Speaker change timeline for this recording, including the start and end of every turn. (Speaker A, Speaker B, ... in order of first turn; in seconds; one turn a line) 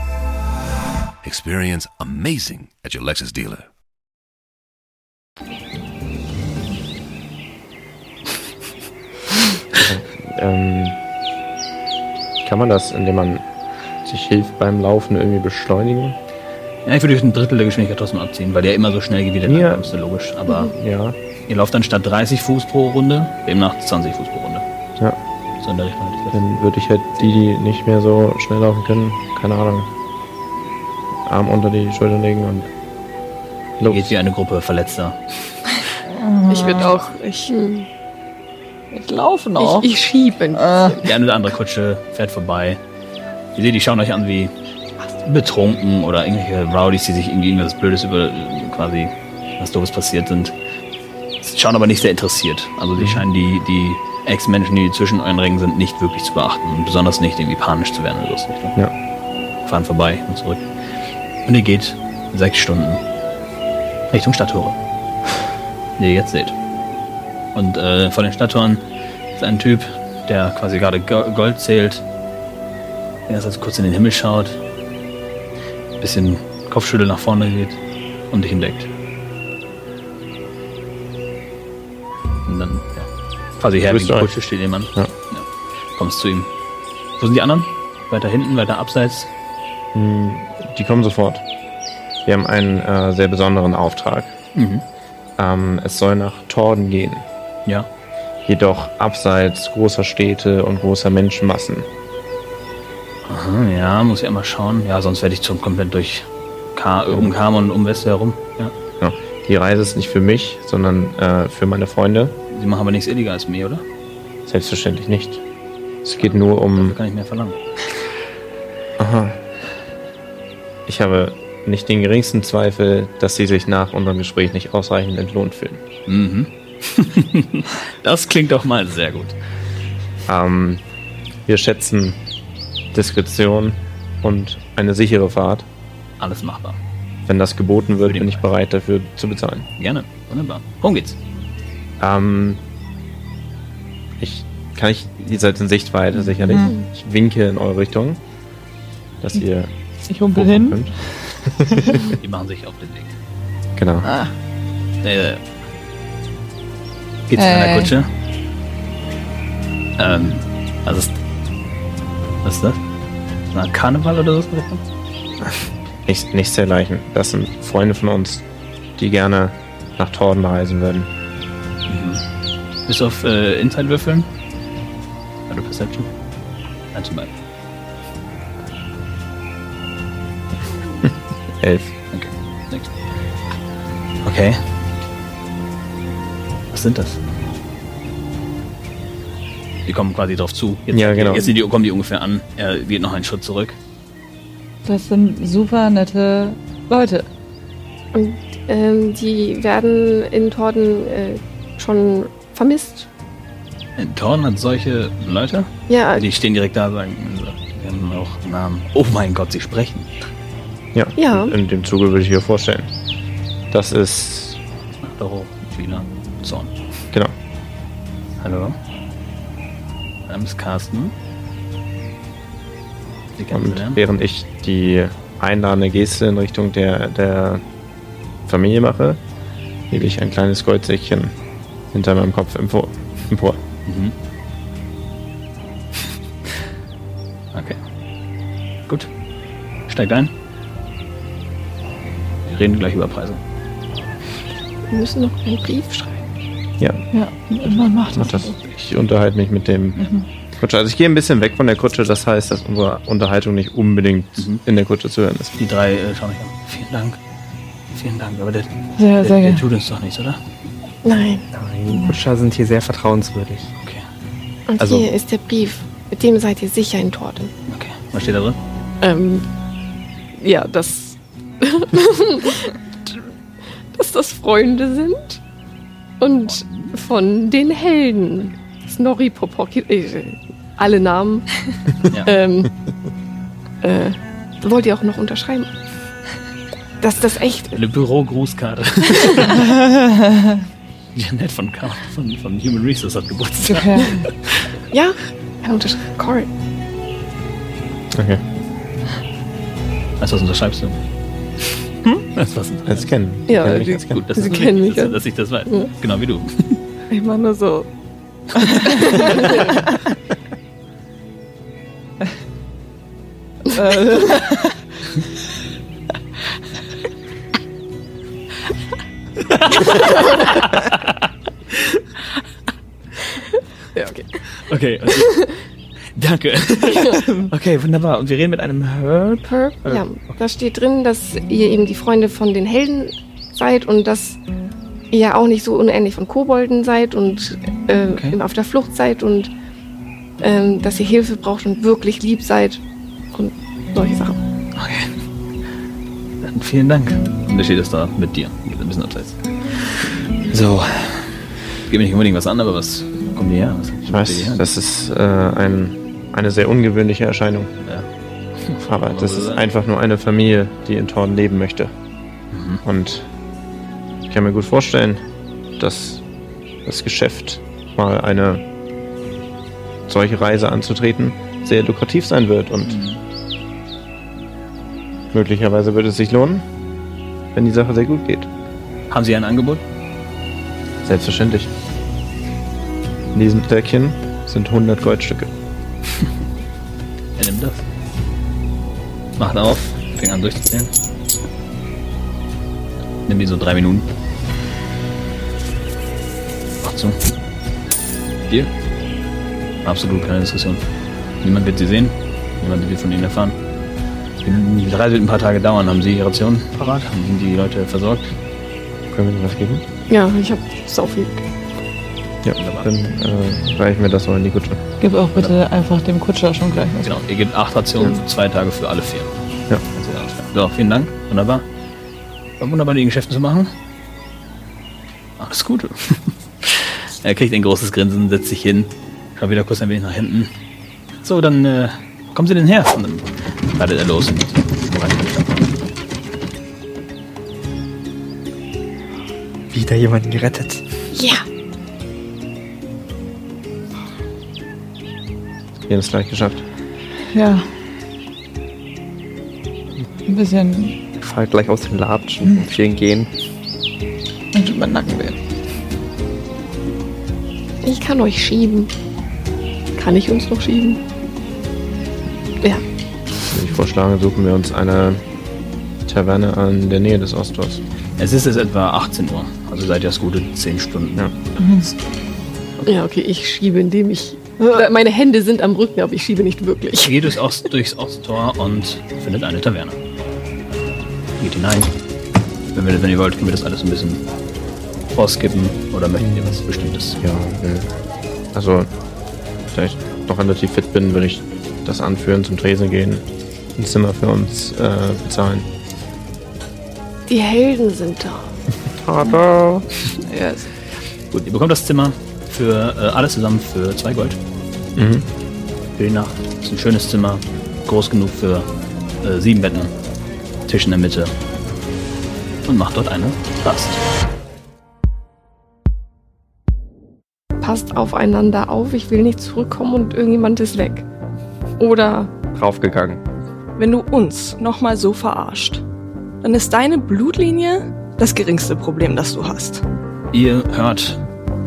Speaker A: 1.2-3.6
Speaker B: 9.7-11.0
Speaker B: 12.4-13.4
Speaker B: 14.0-16.1
Speaker C: 16.9-20.7
Speaker B: 19.4-19.8
Speaker B: 20.7-21.1
Speaker C: 21.5-24.6
Speaker C: 25.6-26.4
Speaker B: 26.3-29.9
Speaker B: 31.2-32.7
Speaker B: 33.8-34.1
Speaker C: 33.8-35.2
Speaker D: 36.1-36.9
Speaker E: 36.6-37.5
Speaker F: 37.5-37.9
Speaker D: 38.9-39.9
Speaker F: 39.6-41.1
Speaker D: 40.5-41.0
Speaker C: 41.0-42.8
Speaker C: 43.5-44.5
Speaker C: 45.2-50.5
Speaker C: 51.4-58.8
Speaker B: 53.0-53.2
Speaker C: 59.6-60.6
Speaker C: 61.5-63.0
Speaker C: 64.1-64.8
Speaker C: 66.0-66.5
Speaker C: 67.5-68.8
Speaker C: 69.4-72.0
Speaker C: 73.3-74.6
Speaker C: 76.0-77.8
Speaker C: 78.3-78.9
Speaker C: 82.5-83.1
Speaker C: 83.6-86.5
Speaker B: 83.9-84.3
Speaker C: 87.2-89.3
Speaker B: 89.9-91.4
Speaker B: 92.2-94.3
Speaker C: 94.5-94.8
Speaker B: 95.4-97.2
Speaker B: 98.5-101.9
Speaker C: 103.2-108.7
Speaker B: 109.0-112.4
Speaker C: 112.5-113.8
Speaker B: 114.5-115.4
Speaker B: 116.0-117.0
Speaker C: 116.2-117.6
Speaker B: 119.0-119.4
Speaker B: 120.9-125.8
Speaker C: 126.1-129.3
Speaker B: 130.3-130.8
Speaker B: 131.5-132.2
Speaker B: 132.9-135.7
Speaker C: 136.2-136.8
Speaker B: 137.3-139.7
Speaker C: 138.1-138.4
Speaker C: 139.8-141.2
Speaker B: 142.0-142.6
Speaker B: 144.2-148.2
Speaker D: 146.5-146.7
Speaker B: 149.2-149.7
Speaker D: 150.1-150.9
Speaker B: 150.3-152.0
Speaker D: 151.7-151.9
Speaker C: 152.0-153.1
Speaker B: 153.8-154.1
Speaker D: 154.0-154.3
Speaker C: 155.0-155.4
Speaker C: 157.3-158.1
Speaker D: 157.4-157.9
Speaker C: 160.0-161.1
Speaker C: 162.4-162.8
Speaker C: 163.5-164.8
Speaker B: 166.1-168.4
Speaker B: 169.0-171.1
Speaker C: 171.9-172.2
Speaker C: 172.9-174.3
Speaker C: 175.5-176.1
Speaker C: 176.9-177.3
Speaker B: 181.0-181.9
Speaker C: 182.1-182.9
Speaker C: 184.2-184.6
Speaker C: 186.7-187.2
Speaker C: 189.9-193.8
Speaker B: 190.9-191.5
Speaker D: 194.8-197.3
Speaker F: 198.1-203.1
Speaker C: 204.0-210.2
Speaker F: 205.9-206.2
Speaker B: 210.9-212.9
Speaker F: 211.2-211.5
Speaker B: 213.7-214.6
Speaker C: 215.0-216.7
Speaker C: 218.4-218.8
Speaker C: 220.3-221.1
Speaker C: 223.4-224.0
Speaker B: 223.5-227.6
Speaker B: 228.5-229.2
Speaker B: 229.9-231.3
Speaker B: 231.9-233.6
Speaker C: 233.9-234.1
Speaker C: 237.5-237.8
Speaker C: 239.9-240.3
Speaker C: 242.5-243.4
Speaker F: 244.9-246.3
Speaker B: 246.8-247.0
Speaker D: 247.1-248.5
Speaker B: 248.1-250.1
Speaker D: 250.0-250.2
Speaker B: 250.6-255.5
Speaker C: 254.4-254.6
Speaker C: 255.6-257.2
Speaker C: 257.9-260.4
Speaker D: 259.0-259.6
Speaker F: 261.0-261.4
Speaker G: 261.5-263.7
Speaker F: 264.7-267.5
Speaker G: 264.8-265.1
Speaker C: 267.7-268.6
Speaker F: 269.0-269.4
Speaker F: 270.3-273.2
Speaker F: 273.9-275.4
Speaker F: 276.2-282.8
Speaker C: 276.4-276.9
Speaker F: 283.8-285.7
Speaker F: 287.0-287.8
Speaker C: 287.7-289.7
Speaker D: 289.8-290.6
Speaker C: 291.1-294.6
Speaker D: 293.6-294.2
Speaker F: 294.9-296.5
Speaker B: 298.1-298.4
Speaker C: 300.2-301.0
Speaker C: 302.3-306.8
Speaker B: 302.9-304.4
Speaker F: 303.5-305.9
Speaker E: 307.1-307.9
Speaker D: 313.7-314.6
Speaker C: 319.5-321.1
Speaker F: 323.9-324.4
Speaker C: 324.5-325.5
Speaker F: 325.1-325.5
Speaker C: 326.1-330.4
Speaker F: 326.9-327.2
Speaker F: 329.5-334.4
Speaker F: 335.1-339.5
Speaker C: 338.1-338.4
Speaker F: 340.4-342.8
Speaker F: 343.3-344.4
Speaker C: 344.8-345.2
Speaker C: 346.4-354.6
Speaker B: 354.1-357.7
Speaker C: 358.6-359.6
Speaker B: 358.9-361.9
Speaker C: 362.5-362.8
Speaker B: 362.8-363.3
Speaker B: 364.2-365.2
Speaker B: 365.8-366.2
Speaker B: 366.9-368.6
Speaker B: 370.1-373.0
Speaker C: 372.9-373.2
Speaker B: 375.3-376.6
Speaker B: 377.5-378.5
Speaker C: 379.1-379.8
Speaker B: 381.0-381.7
Speaker B: 383.3-385.5
Speaker C: 387.4-387.8
Speaker C: 389.4-390.9
Speaker C: 393.2-394.1
Speaker C: 396.8-397.2
Speaker C: 399.8-400.8
Speaker C: 401.4-403.5
Speaker C: 404.4-408.3
Speaker B: 409.1-409.8
Speaker F: 410.1-411.4
Speaker B: 412.4-414.8
Speaker C: 412.6-412.9
Speaker D: 415.0-417.2
Speaker C: 417.0-419.3
Speaker C: 419.9-421.6
Speaker C: 422.6-423.7
Speaker C: 425.4-430.5
Speaker C: 431.2-435.7
Speaker G: 439.7-440.8
Speaker F: 441.1-441.4
Speaker B: 445.9-446.6
Speaker D: 447.3-447.7
Speaker D: 450.3-450.9
Speaker G: 451.2-453.3
Speaker D: 454.5-455.4
Speaker F: 457.8-458.9
Speaker F: 459.9-461.0
Speaker B: 463.5-465.2
Speaker B: 466.1-467.8
Speaker C: 468.2-471.9
Speaker D: 471.6-471.9
Speaker F: 472.9-477.3
Speaker C: 477.0-480.0
Speaker C: 481.4-481.9
Speaker C: 482.7-484.2
Speaker C: 485.1-487.2
Speaker B: 486.2-486.6
Speaker B: 487.2-487.9
Speaker B: 488.5-488.9
Speaker B: 489.7-493.2
Speaker B: 493.8-495.7
Speaker F: 497.3-498.5
Speaker B: 499.0-499.9
Speaker E: 500.3-500.6
Speaker C: 501.3-504.4
Speaker B: 504.9-505.2
Speaker C: 506.0-508.7
Speaker C: 509.2-509.9
Speaker C: 510.7-511.3
Speaker C: 512.6-514.0
Speaker F: 517.6-521.0
Speaker F: 521.8-522.3
Speaker G: 522.5-523.2
Speaker E: 523.8-525.8
Speaker E: 526.4-529.8
Speaker C: 530.3-531.2